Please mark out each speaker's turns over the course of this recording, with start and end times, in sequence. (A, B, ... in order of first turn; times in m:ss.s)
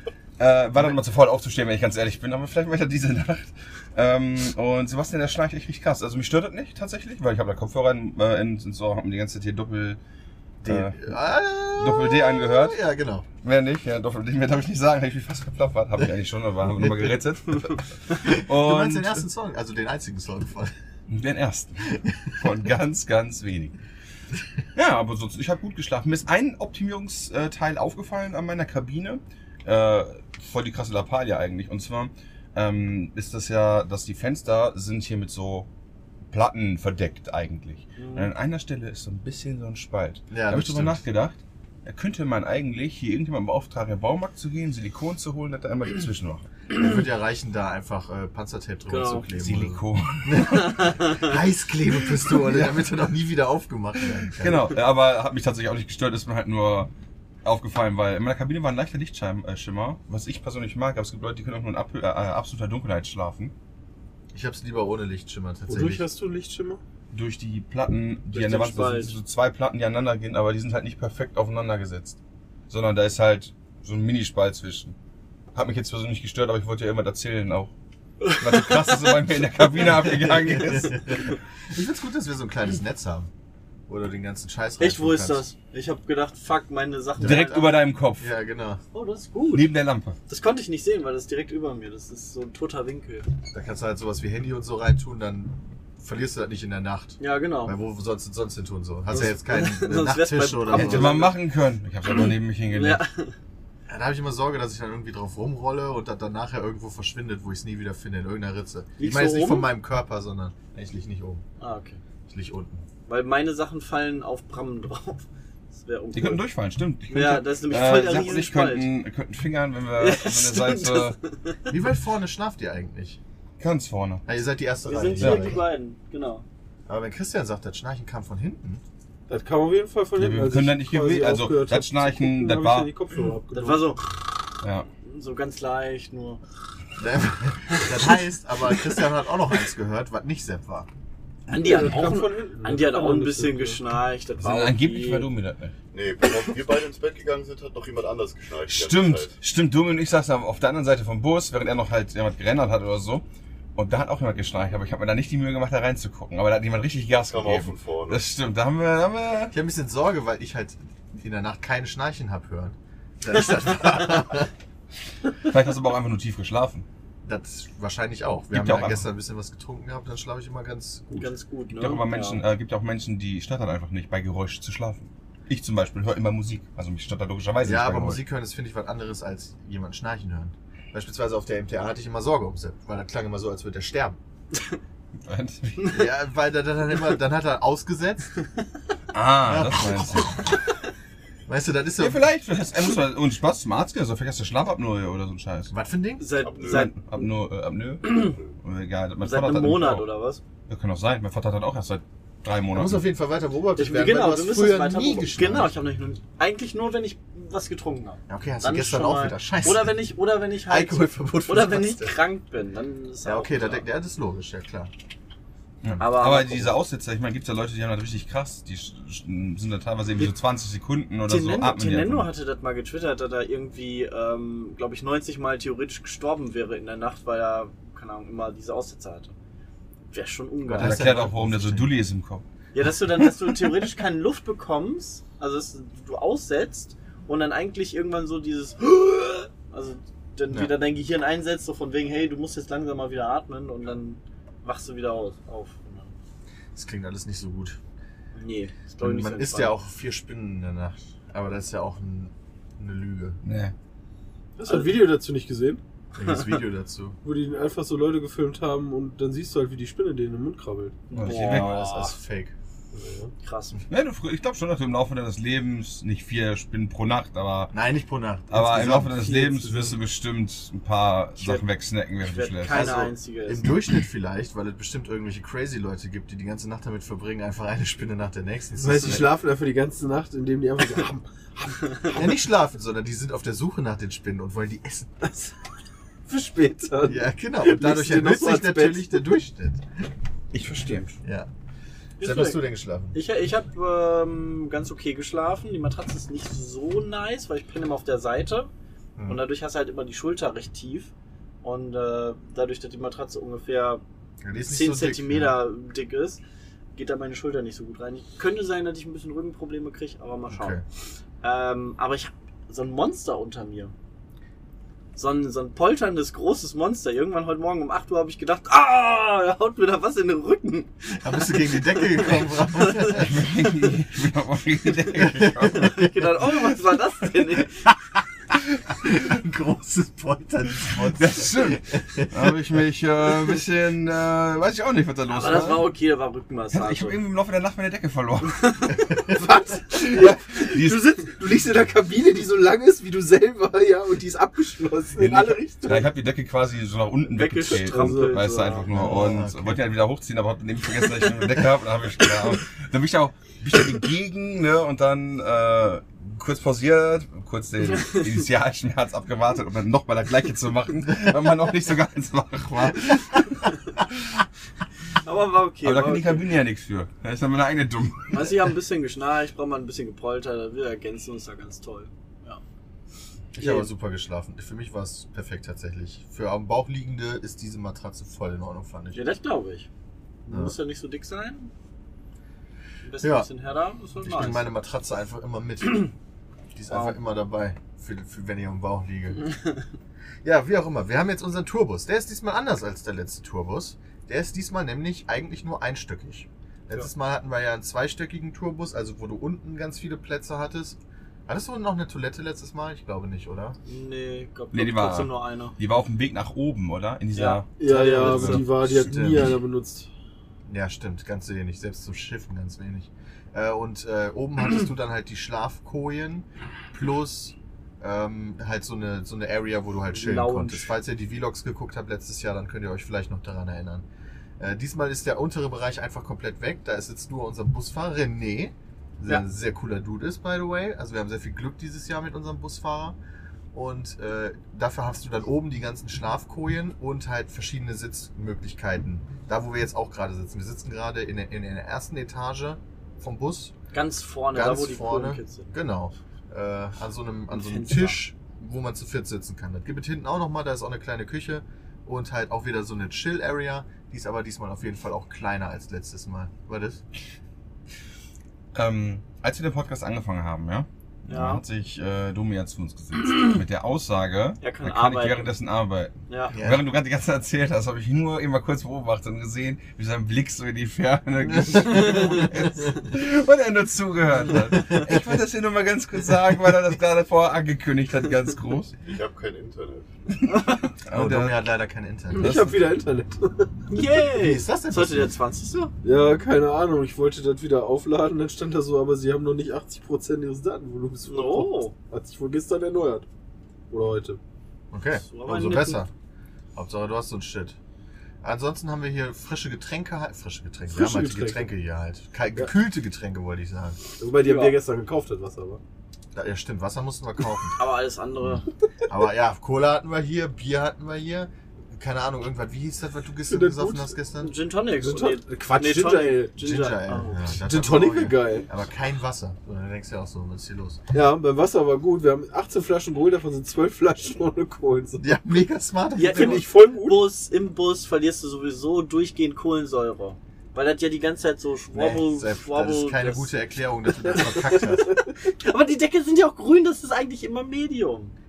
0:00.4-0:10.0 A
0:10.6-0:13.3 B
0:10.6-0:11.1 A
0:11.7-0:12.8 A
0:13.4-0:19.2 A
0:18.2-0:20.7 B
0:21.1-0:23.8 A
0:24.7-0:35.7 A
0:36.3-0:46.5 A
0:38.0-0:38.3 C
0:40.3-0:41.0 B
0:46.7-0:54.7 B
0:48.9-0:49.3 C
0:49.3-0:51.0 A
0:50.6-0:51.3 C
0:54.4-0:56.9 A
0:57.4-1:03.5 A
1:04.3-1:06.0 B
1:05.6-1:06.8 D
1:07.1-1:12.2 A
1:08.3-1:09.1 C
1:12.7-1:15.0 A
1:15.5-1:17.7 A
1:18.2-1:18.9 C
1:18.4-1:21.1 A
1:20.0-1:23.3 B
1:23.9-1:25.5 B
1:24.8-1:27.8 C
1:27.2-1:27.5 B
1:27.2-1:28.3 A
1:28.2-1:28.8 B
1:28.9-1:29.7 C
1:29.5-1:30.2 A
1:30.3-1:33.3 C
1:33.5-1:41.2 B
1:37.2-1:37.8 C
1:39.2-1:41.3 C
1:40.7-1:43.0 A
1:42.7-1:43.3 C
1:43.9-1:51.4 B
1:49.0-1:49.7 C
1:51.6-1:52.0 C
1:52.3-1:52.8 B
1:53.0-1:56.4 C
1:56.1-2:01.2 A
1:57.1-1:58.9 C
2:00.0-2:01.6 C
2:01.7-2:03.2 B
2:03.6-2:04.2 A
2:04.3-2:05.6 B
2:04.8-2:06.4 C
2:05.2-2:05.6 A
2:06.9-2:08.8 B
2:09.3-2:13.9 D
2:10.2-2:12.9 A
2:13.5-2:14.3 C
2:14.6-2:14.9 A
2:15.0-2:16.4 C
2:17.0-2:20.9 B
2:21.5-2:25.3 C
2:21.5-2:23.8 D
2:24.4-2:25.7 A
2:25.9-2:29.3 E
2:28.7-2:33.2 A
2:33.8-2:39.5 A
2:37.3-2:38.2 E
2:39.5-2:44.5 B
2:45.4-2:46.8 A
2:47.2-2:51.3 B
2:48.5-2:49.0 A
2:51.1-2:52.4 C
2:51.7-2:58.2 A
2:57.6-3:04.2 B
3:05.2-3:05.9 A
3:05.9-3:08.3 B
3:09.1-3:10.4 A
3:09.4-3:10.4 B
3:11.5-3:12.2 B
3:12.0-3:15.7 A
3:15.7-3:16.3 B
3:16.2-3:16.9 C
3:16.3-3:16.9 E
3:16.6-3:20.0 A
3:18.0-3:18.3 C
3:18.1-3:18.4 E
3:19.2-3:20.4 C
3:20.7-3:23.0 A
3:22.7-3:25.9 B
3:23.8-3:33.8 C
3:28.3-3:30.0 B
3:30.6-3:32.2 B
3:33.2-3:34.9 B
3:35.8-3:42.3 A
3:35.8-3:36.4 B
3:36.0-3:36.7 C
3:41.2-3:49.3 C
3:50.1-3:51.2 C
3:50.7-3:51.9 B
3:50.8-3:52.4 A
3:52.7-4:06.1 C
4:06.7-4:07.8 B
4:08.4-4:09.7 C
4:09.0-4:13.4 B
4:13.4-4:13.7 A
4:14.6-4:15.8 D
4:14.6-4:15.0 C
4:16.2-4:17.2 B
4:16.2-4:16.4 C
4:17.2-4:21.1 D
4:21.1-4:21.8 A
4:21.1-4:22.5 B
4:21.2-4:22.2 C
4:22.9-4:23.3 D
4:23.4-4:23.8 C
4:23.9-4:27.7 A
4:27.7-4:29.3 B
4:28.5-4:32.9 A
4:28.9-4:30.0 D
4:31.4-4:31.7 C
4:32.2-4:33.6 C
4:32.7-4:39.3 B
4:38.8-4:42.2 D
4:42.1-4:45.2 B
4:45.2-4:45.5 D
4:46.3-4:49.3 D
4:47.0-4:49.8 B
4:50.5-4:51.1 A
4:51.2-4:51.5 B
4:52.2-4:58.7 C
4:52.2-4:53.2 B
4:59.2-4:59.4 B
4:59.3-5:01.1 C
5:01.6-5:04.0 C
5:04.4-5:05.6 B
5:04.6-5:06.4 C
5:06.9-5:10.8 C
5:10.5-5:10.8 B
5:11.4-5:13.9 C
5:15.2-5:24.0 C
5:21.2-5:23.3 B
5:23.2-5:25.9 A
5:25.2-5:26.1 B
5:25.6-5:27.7 C
5:29.0-5:32.6 B
5:31.1-5:35.9 A
5:35.3-5:37.2 C
5:36.7-5:38.9 A
5:38.6-5:38.9 C
5:39.3-5:46.1 D
5:39.9-5:41.2 A
5:45.2-6:03.7 A
5:47.3-5:49.1 C
5:47.7-5:48.8 D
5:48.9-5:49.8 B
6:05.2-6:06.5 C
6:05.8-6:08.6 A
6:08.3-6:12.6 C
6:13.5-6:19.2 B
6:13.6-6:13.9 C
6:19.1-6:19.9 C
6:20.5-6:21.7 C
6:20.5-6:20.8 B
6:23.0-6:24.7 C
6:23.2-6:23.5 B
6:24.2-6:26.1 B
6:26.7-6:29.4 B
6:26.9-6:27.2 C
6:30.4-6:43.8 B
6:43.8-6:45.7 C
6:44.7-6:48.6 A
6:47.3-6:48.7 C
6:47.8-6:50.1 D
6:48.8-6:49.5 B
6:50.6-7:04.0 B
7:00.1-7:00.9 C
7:04.6-7:13.2 B
7:13.7-7:23.7 B
7:23.9-7:25.7 C
7:24.5-7:37.0 B
7:27.5-7:28.2 C
7:38.7-7:58.9 A
7:41.3-7:41.6 C
7:44.6-7:45.5 C
7:46.3-7:46.6 C
7:46.5-7:46.8 B
7:51.5-7:52.2 B
7:51.9-7:52.5 C
7:54.7-7:55.2 B
7:59.0-8:00.1 E
8:00.5-8:00.8 C
8:01.0-8:01.6 A
8:01.1-8:02.6 B
8:02.3-8:03.8 D
8:02.4-8:02.8 A
8:03.9-8:05.9 C
8:04.3-8:05.3 B
8:06.0-8:13.3 D
8:11.3-8:11.9 C
8:13.9-8:14.4 D
8:14.9-8:16.1 B
8:15.2-8:16.0 C
8:16.7-8:17.8 B
8:18.4-8:24.0 B
8:20.9-8:21.7 D
8:24.2-8:25.8 D
8:24.4-8:24.8 C
8:26.3-8:27.8 B
8:27.8-8:28.7 C
8:28.4-8:34.5 B
8:33.5-8:34.1 D
8:34.4-8:37.5 C
8:35.0-8:36.6 D
8:36.6-8:41.0 B
8:37.6-8:38.6 D
8:41.1-8:45.3 D
8:45.2-8:46.6 B
8:46.2-8:53.5 C
8:46.2-8:47.3 D
8:51.9-8:55.2 B
8:55.2-8:58.3 C